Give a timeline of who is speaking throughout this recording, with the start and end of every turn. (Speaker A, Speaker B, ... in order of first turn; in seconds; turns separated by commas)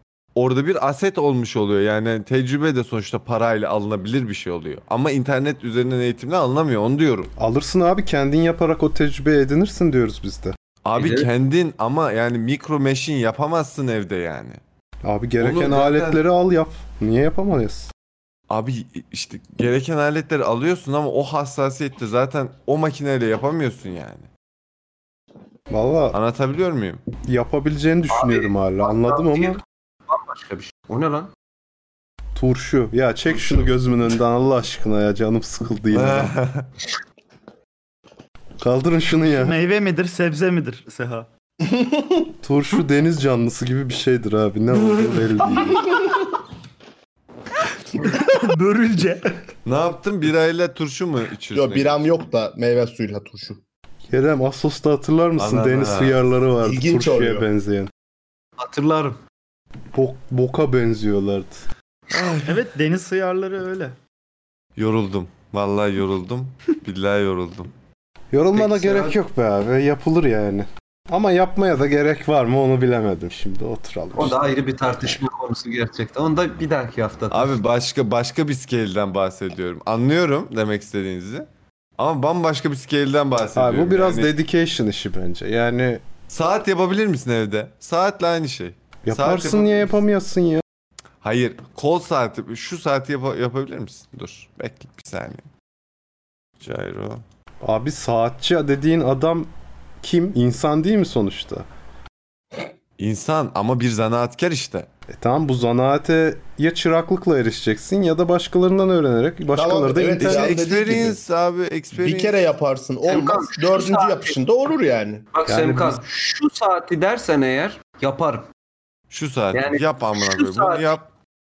Speaker A: 0.3-7.3, Speaker B: 7.4-10.5, Speaker A: 10.8-14.6, Speaker C: 10.9-11.3, Speaker B: 15.0-17.9, Speaker A: 15.4-16.2, Speaker A: 18.5-24.3, Speaker B: 25.7-26.2, Speaker A: 26.1-27.0, Speaker B: 27.2-29.6, Speaker C: 28.1-31.3, Speaker B: 32.3-36.3, Speaker A: 35.9-36.7, Speaker B: 38.6-39.5, Speaker D: 39.2-41.3, Speaker E: 41.6-42.1, Speaker B: 42.4-46.0, Speaker D: 48.0-49.3, Speaker A: 49.6-52.0, Speaker E: 51.5-53.6, Speaker B: 54.1-57.9, Speaker A: 55.4-56.1, Speaker E: 56.6-57.4, Speaker C: 58.6-59.2, Speaker B: 59.9-61.6, Speaker A: 62.1-62.5, Speaker D: 62.4-64.0, Speaker A: 64.8-67.7, Speaker B: 68.3-74.4, Speaker C: 68.5-69.1, Speaker C: 74.2-77.5, Speaker A: 77.3-81.5, Speaker A: 82.0-84.3, Speaker B: 83.5-86.0, Speaker A: 86.3-89.7, Speaker B: 89.0-90.6, Speaker A: 91.2-95.5, Speaker A: 96.6-97.2, Speaker B: 97.6-99.5, Speaker B: 100.0-101.7, Speaker A: 103.0-104.9, Speaker B: 105.1-110.5, Speaker E: 109.5-111.2, Speaker A: 110.2-112.5, Speaker E: 111.9-115.3, Speaker C: 113.0-114.3, Speaker C: 115.3-118.4, Speaker B: 115.5-116.0, Speaker A: 119.1-121.1, Speaker C: 119.5-120.9